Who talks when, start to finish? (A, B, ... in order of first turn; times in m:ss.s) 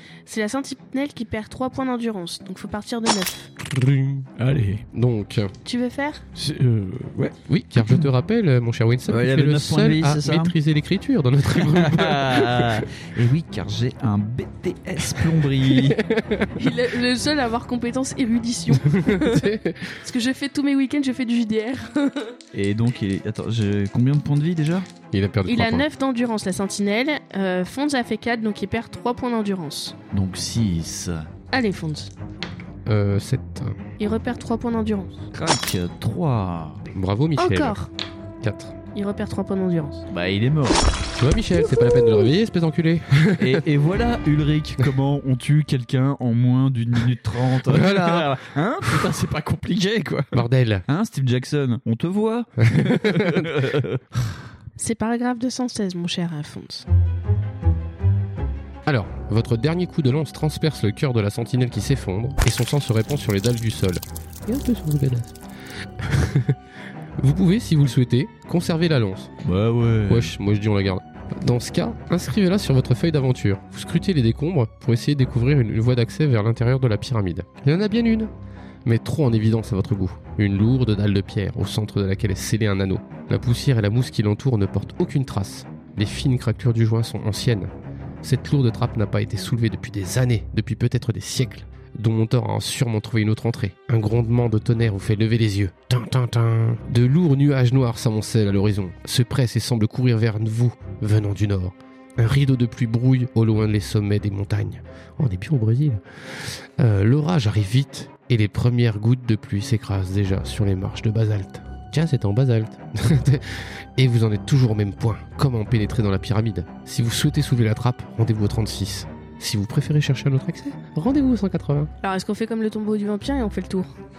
0:00.2-0:03.5 A
0:03.6-0:04.3 B
0:04.4-0:04.8 C
0:04.9-0:05.5 B
0:05.6-0:06.2 A
0:06.4-0:08.1 C
0:07.5-0:12.9 B
0:09.1-0:10.5 C
0:11.6-0:16.0 C
0:15.7-0:16.6 B
0:16.6-0:22.4 A
0:18.8-0:20.0 B
0:22.5-0:24.9 C
0:25.1-0:25.8 B
0:25.4-0:30.0 A
0:30.1-0:31.3 C
0:31.5-0:32.1 A
0:32.8-0:33.8 B
0:34.0-0:35.2 A
0:35.3-0:36.9 C
0:36.9-0:37.8 B
0:37.4-0:37.9 A
0:38.4-0:38.7 B
0:38.9-0:40.0 A
0:40.1-0:40.9 C
0:41.2-0:43.6 B
0:43.4-0:54.0 C
0:47.6-0:49.1 B
0:50.3-0:50.8 B
0:52.6-0:53.6 B
0:54.8-0:56.8 A
0:58.8-1:05.4 B
1:06.0-1:06.6 B
1:07.2-1:09.3 B
1:09.4-1:10.3 C
1:10.1-1:18.3 B
1:18.8-1:27.7 B
1:28.2-2:01.9 B
2:02.0-2:03.9 A